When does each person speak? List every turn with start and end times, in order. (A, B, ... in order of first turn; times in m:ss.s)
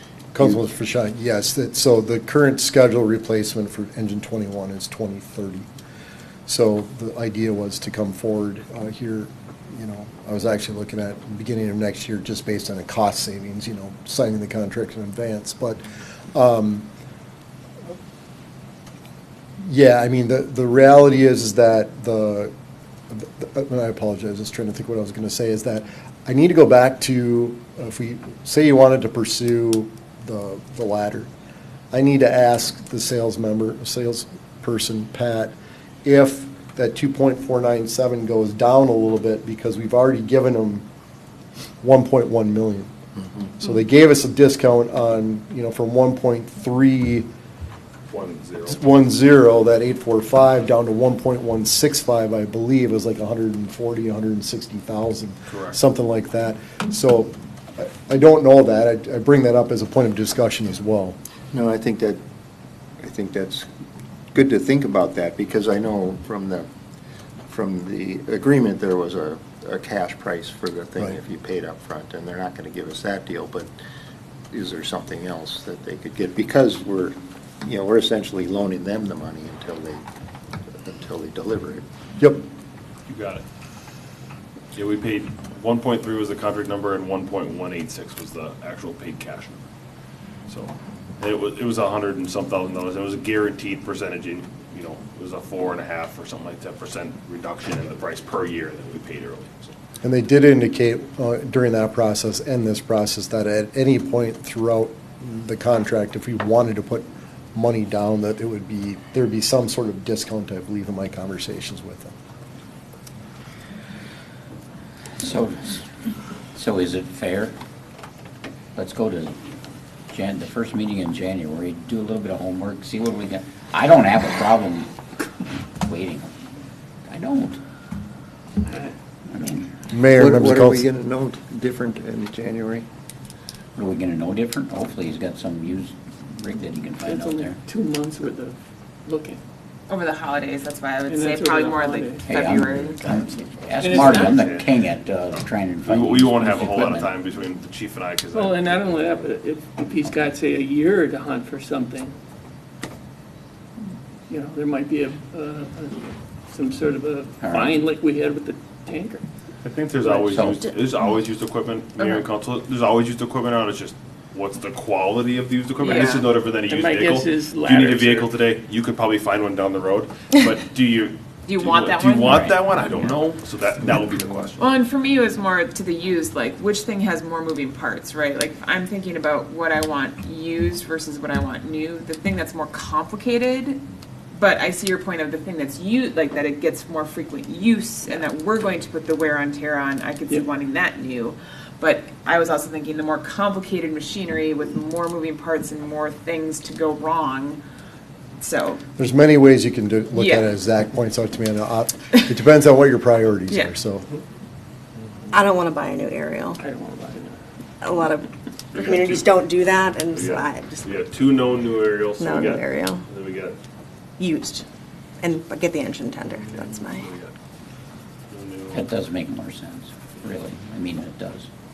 0:00.3-0:05.6 A
0:06.5-0:15.8 A
0:16.3-0:16.8 A
0:19.6-0:22.5 A
0:23.1-0:31.3 A
0:31.9-0:40.8 A
0:41.8-0:42.9 A
0:43.6-0:47.3 A
0:48.1-0:48.8 B
0:48.7-1:01.2 A
0:55.5-0:55.8 B
1:01.5-1:02.2 C
1:03.0-1:03.7 C
1:04.3-1:06.7 C
1:07.5-1:13.7 C
1:14.5-1:20.0 C
1:20.8-1:21.8 C
1:22.2-1:22.4 A
1:23.1-1:23.4 B
1:24.7-1:29.6 B
1:30.5-1:39.7 B
1:40.0-1:52.1 A
1:55.2-1:55.9 D
1:56.5-1:57.6 D
1:58.7-1:59.3 D
2:00.1-2:04.9 D
2:05.8-2:06.3 D
2:07.1-2:07.6 D
2:09.3-2:09.7 D
2:09.9-2:10.8 A
2:10.1-2:12.8 C
2:13.8-2:17.6 D
2:17.0-2:19.4 E
2:19.9-2:23.1 F
2:21.1-2:22.2 E
2:22.3-2:27.2 D
2:23.8-2:24.3 E
2:23.8-2:24.7 B
2:25.3-2:28.9 B
2:28.3-2:32.1 E
2:34.3-2:39.2 E
2:37.4-2:37.8 D
2:39.6-2:54.8 B
2:40.3-2:40.6 D
2:45.8-2:46.3 F
2:46.7-2:48.3 E
2:51.4-2:52.5 F
2:52.2-2:52.6 D
2:54.6-3:03.8 F
3:04.3-3:17.6 F
3:18.4-3:18.8 F
3:19.0-3:24.0 A
3:20.1-3:20.5 F
3:25.3-3:26.6 G
3:26.6-3:27.4 E
3:27.8-3:31.0 G
3:30.1-3:33.6 B
3:32.2-3:33.0 G
3:34.2-3:34.6 G
3:35.2-3:37.1 G
3:37.0-3:37.3 B
3:38.3-3:38.9 B
3:38.7-3:41.5 D